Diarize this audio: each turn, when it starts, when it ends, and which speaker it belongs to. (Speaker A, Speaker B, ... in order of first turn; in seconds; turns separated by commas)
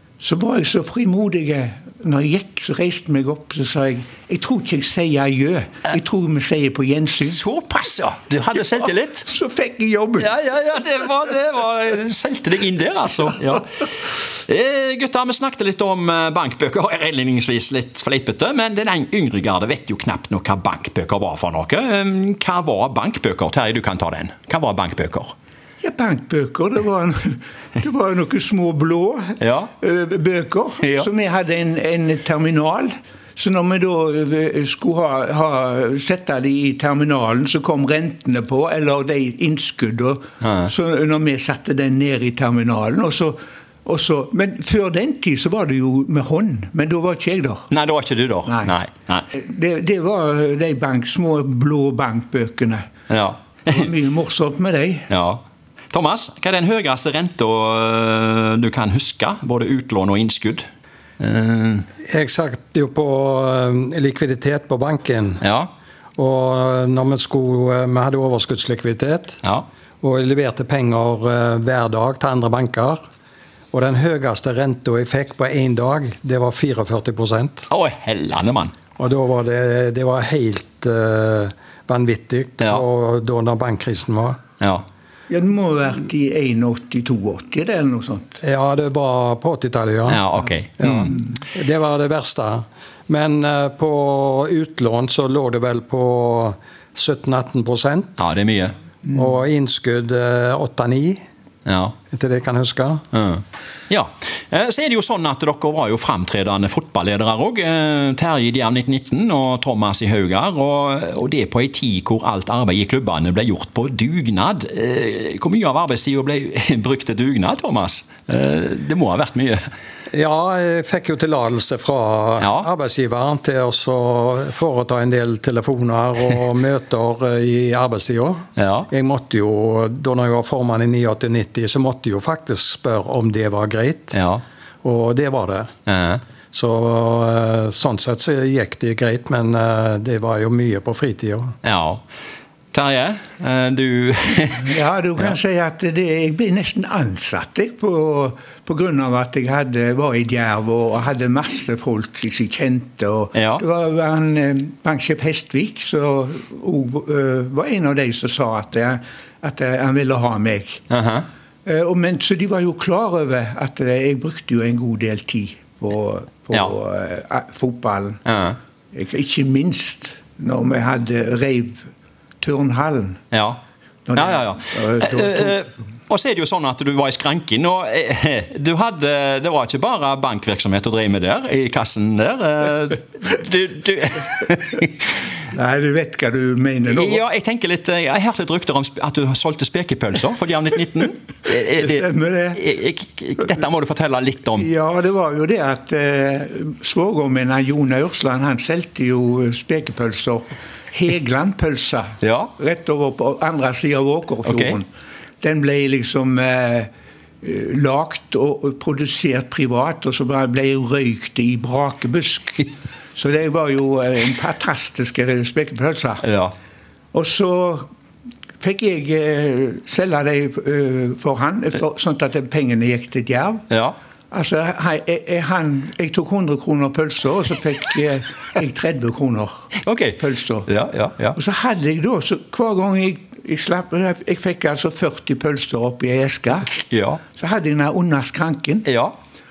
Speaker A: 0.2-7.4, Speaker B: 7.2-9.3, Speaker A: 8.7-10.3, Speaker B: 10.2-25.3, Speaker A: 25.8-47.7, Speaker B: 29.4-29.7, Speaker B: 40.4-40.7, Speaker B: 47.7-49.2, Speaker A: 48.5-48.7, Speaker A: 49.3-52.9, Speaker B: 53.1-53.9, Speaker A: 53.7-55.1, Speaker B: 55.1-60.6, Speaker B: 61.2-61.9, Speaker C: 62.0-65.4, Speaker B: 65.4-65.7, Speaker C: 66.2-69.4, Speaker C: 70.0-73.0, Speaker C: 73.7-77.7, Speaker B: 77.7-78.7, Speaker C: 79.0-84.4, Speaker B: 84.6-84.8, Speaker A: 85.3-88.4, Speaker C: 88.4-90.2, Speaker B: 90.1-91.1, Speaker C: 90.8-98.2, Speaker B: 98.2-98.7, Speaker C: 99.1-101.2, Speaker B: 101.7-101.9, Speaker C: 102.1-103.0, Speaker B: 103.1-119.6, Speaker C: 120.1-134.2, Speaker B: 122.4-122.7, Speaker B: 128.6-128.9, Speaker B: 134.1-134.4, Speaker C: 134.8-135.7, Speaker B: 135.8-136.2, Speaker C: 136.5-141.5, Speaker B: 141.6-142.0, Speaker B: 142.7-145.3, Speaker A: 144.6-160.8, Speaker B: 153.3-153.6, Speaker B: 160.9-161.2, Speaker A: 161.6-168.2, Speaker B: 168.2-168.6, Speaker A: 168.9-171.8, Speaker A: 172.4-173.2, Speaker B: 173.3-173.6, Speaker A: 174.1-175.6, Speaker B: 174.1-185.0, Speaker A: 185.4-187.2, Speaker B: 186.9-194.7, Speaker A: 191.7-192.6, Speaker A: 194.6-204.9, Speaker B: 202.2-202.5, Speaker B: 204.4-204.8, Speaker A: 205.4-206.9, Speaker A: 207.4-216.2, Speaker B: 216.2-216.5, Speaker A: 217.1-217.9, Speaker A: 218.6-223.6, Speaker B: 223.7-223.9, Speaker A: 224.3-229.6, Speaker B: 229.8-231.4, Speaker A: 230.2-230.7, Speaker A: 231.3-236.7, Speaker B: 236.7-237.2, Speaker A: 237.3-238.8, Speaker B: 238.8-239.1